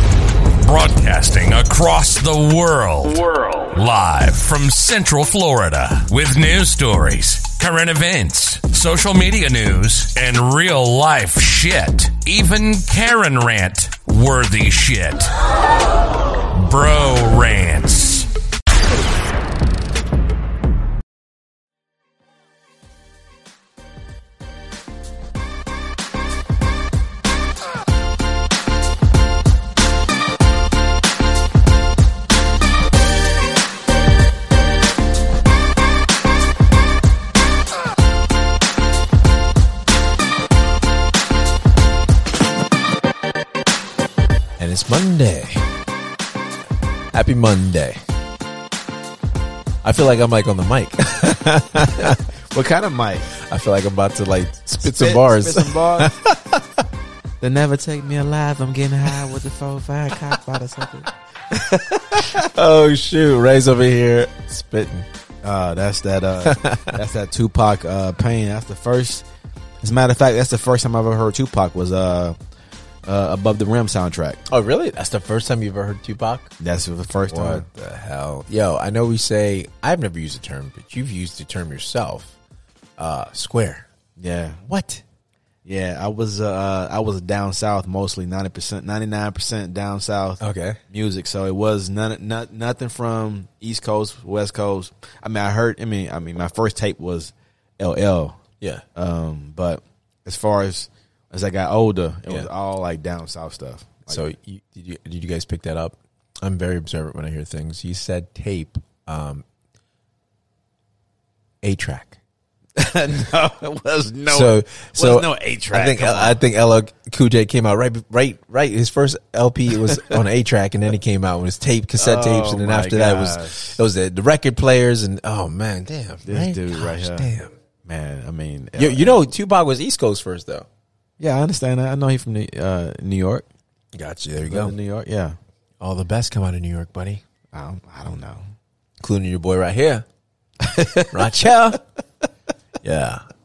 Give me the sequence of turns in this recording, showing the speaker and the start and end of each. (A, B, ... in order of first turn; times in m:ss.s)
0:00.6-0:15.3 A
0:16.5-0:18.3 A
0:44.6-0:45.7 B
0:47.1-0:48.0 B
0:49.8-0:52.2 B
0:52.0-0:53.3 C
0:53.4-0:56.8 B
0:54.8-0:56.2 C
0:57.4-1:01.1 C
1:01.7-1:05.1 B
1:05.4-1:09.3 C
1:06.4-1:07.0 B
1:09.8-1:12.4 C
1:13.0-1:14.4 C
1:14.5-1:16.5 B
1:16.6-1:17.7 C
1:17.3-1:22.4 B
1:23.0-1:23.9 B
1:24.2-1:24.6 C
1:24.6-1:25.0 B
1:25.6-1:38.4 C
1:30.4-1:30.8 B
1:38.6-1:38.8 B
1:39.0-1:44.2 C
1:44.1-1:49.4 B
1:51.6-1:52.2 B
1:52.8-1:56.4 C
1:54.3-2:07.6 B
2:02.0-2:03.8 C
2:06.2-2:07.3 C
2:07.8-2:09.2 C
2:08.8-2:10.7 B
2:11.2-2:13.5 C
2:13.9-2:14.8 B
2:14.4-2:15.4 C
2:15.8-2:17.2 B
2:17.5-2:18.4 C
2:19.0-2:20.0 B
2:20.6-2:21.5 C
2:21.1-2:21.8 B
2:22.8-2:23.2 B